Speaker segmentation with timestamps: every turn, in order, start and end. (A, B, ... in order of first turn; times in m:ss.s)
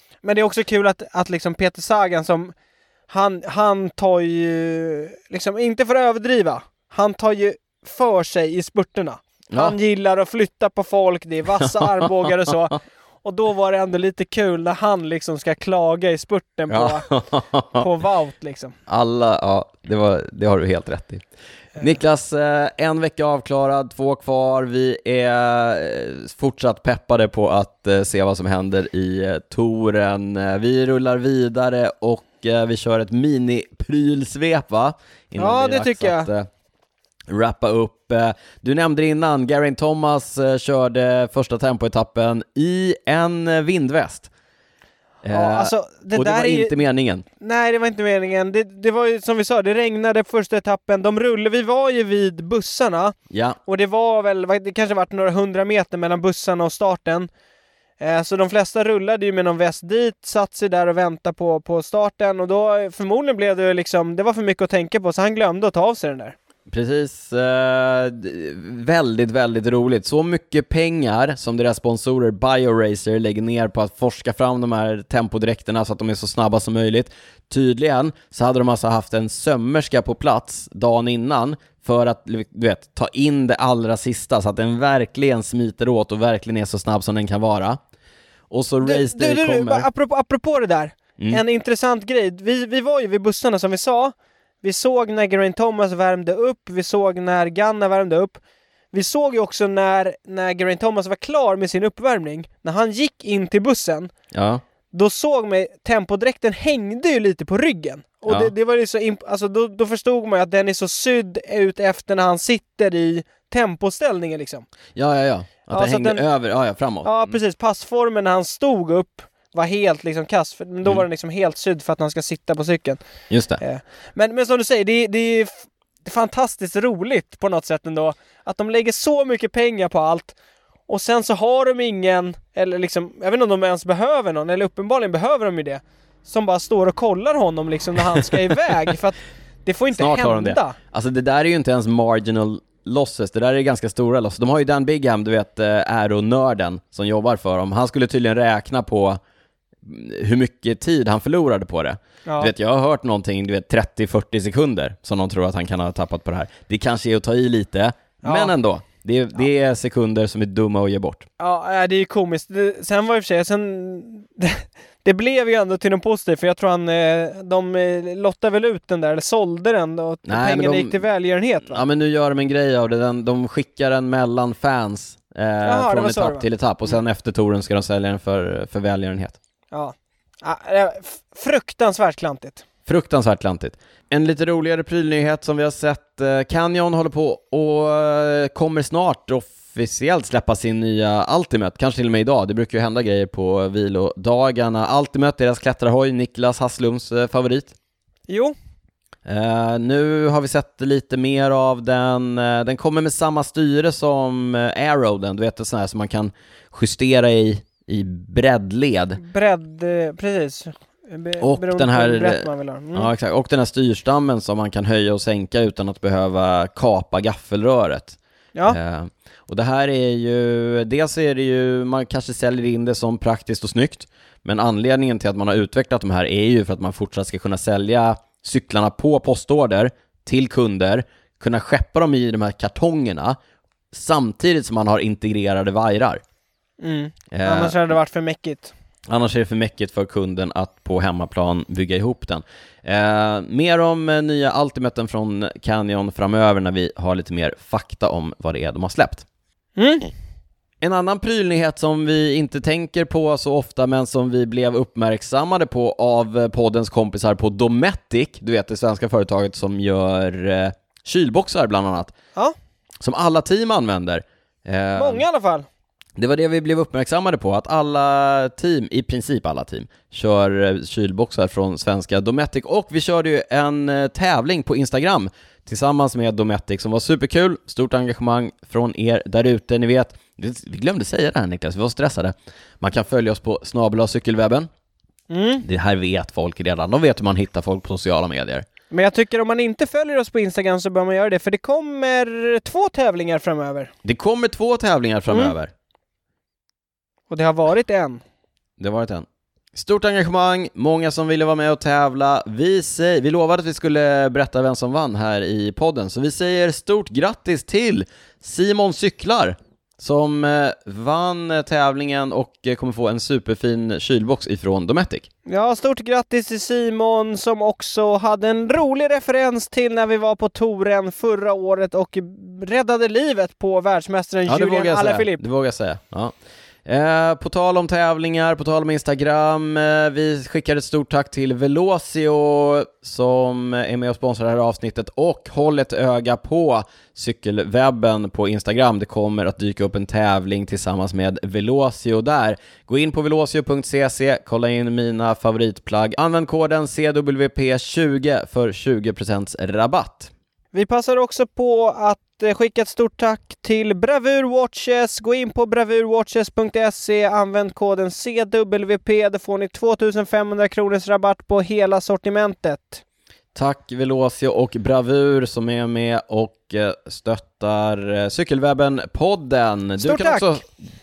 0:00.2-0:02.5 A
0:03.1-0:17.0 A
0:11.6-0:12.6 B
0:16.7-0:17.9 B
0:17.8-0:18.7 A
0:18.9-0:21.2 B
0:21.8-0:36.5 B
0:35.4-0:36.3 A
0:37.3-0:44.3 B
0:45.2-0:47.2 B
0:45.3-0:46.7 A
0:47.4-0:57.3 A
0:53.3-0:53.6 B
0:58.0-1:06.4 A
1:06.7-1:27.8 B
1:28.5-1:29.9 B
1:28.8-1:38.4 A
1:38.9-1:44.1 A
1:44.3-1:44.6 B
1:44.9-1:54.6 A
1:48.2-1:48.5 B
1:54.9-1:57.4 B
1:55.7-1:56.2 A
1:57.0-2:03.0 A
2:03.3-2:03.6 B
2:03.6-2:10.4 A
2:10.9-2:20.8 A
2:19.9-2:29.2 B
2:29.8-2:41.2 B
2:32.2-2:32.5 A
2:38.2-2:38.5 A
2:41.4-2:51.8 A
2:50.2-2:51.0 B
2:51.6-2:59.4 B
2:55.6-2:56.9 A
2:59.7-3:02.6 A
3:02.8-3:17.8 B
3:18.3-3:18.5 A
3:19.2-3:29.2 B
3:29.2-3:33.1 A
3:31.4-3:53.4 B
3:53.9-3:56.2 B
3:56.8-3:58.7 A
3:57.3-3:57.8 B
3:59.1-4:09.2 B
4:09.8-4:10.1 A
4:10.8-4:22.1 B
4:23.0-4:25.2 B
4:25.0-4:25.6 A
4:26.2-4:44.7 B
4:45.3-4:45.6 A
4:45.6-4:48.7 B
4:48.9-4:53.9 A
4:54.0-4:55.7 B
4:57.3-4:58.2 A
4:58.8-5:15.3 B
5:15.4-5:25.4 A
5:24.4-5:26.3 B
5:26.8-5:50.3 B
5:50.7-6:03.0 A
6:03.5-6:10.6 B
6:10.0-6:10.6 A